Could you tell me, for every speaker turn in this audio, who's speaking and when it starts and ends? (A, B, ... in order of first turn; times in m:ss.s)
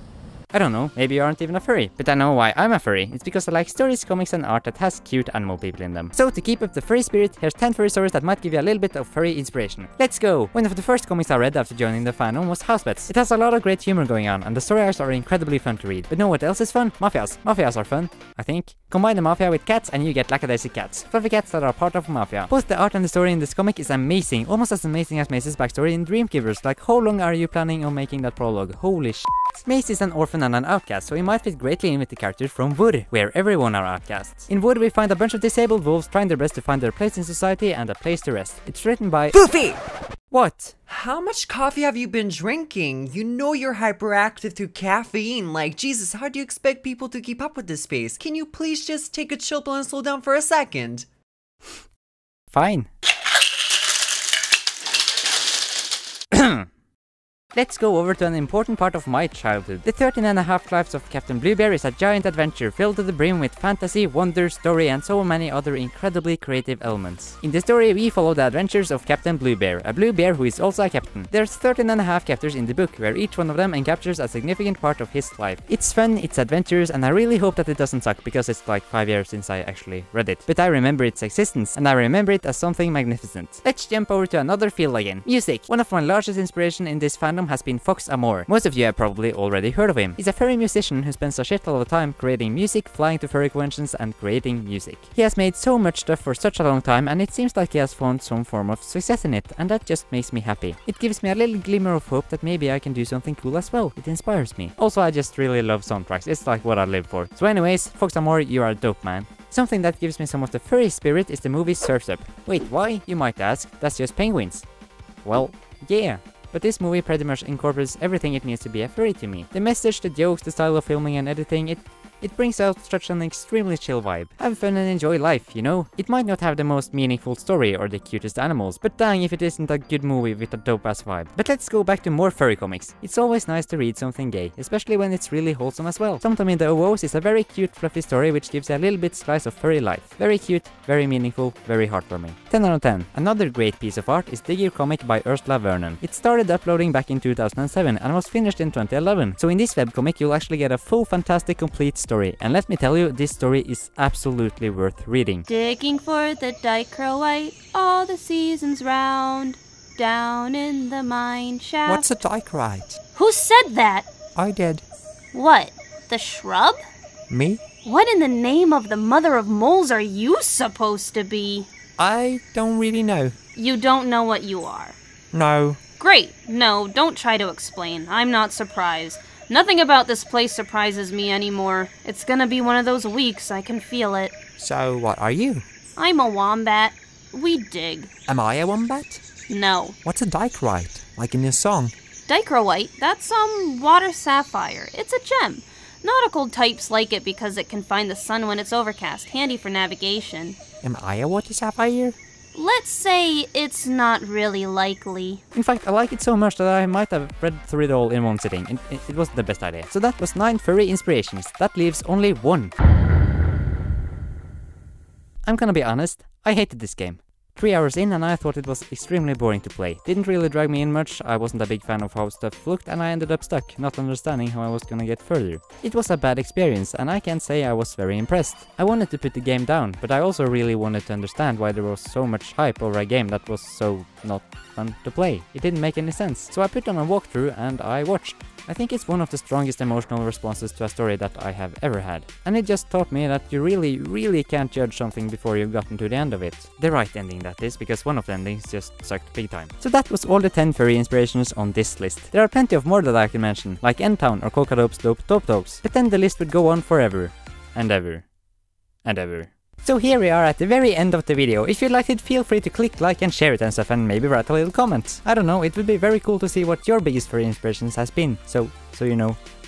0:00.5-0:39.4 A
0:39.3-0:39.8 B
0:40.3-0:40.7 A
0:40.9-0:51.0 B
0:52.5-0:52.9 A
0:56.3-0:56.7 A
0:57.5-1:54.6 A
1:55.2-2:35.4 A
2:35.5-2:42.1 C
2:41.8-2:43.0 D
2:43.1-2:44.1 C
2:44.3-2:44.8 D
2:45.3-2:46.8 C
2:47.3-2:47.6 D
2:47.8-2:51.7 C
2:52.0-2:53.4 D
2:53.5-2:55.0 C
2:55.3-2:55.8 D
2:56.0-3:04.3 C
3:04.6-3:05.6 D
3:06.0-3:08.1 C
3:08.3-3:09.2 D
3:09.5-3:10.0 C
3:10.0-3:11.9 D
3:12.3-3:20.6 C
3:20.8-3:22.2 D
3:22.5-3:25.4 C
3:25.5-3:32.7 A
3:35.4-4:18.2 A
4:19.0-4:29.4 A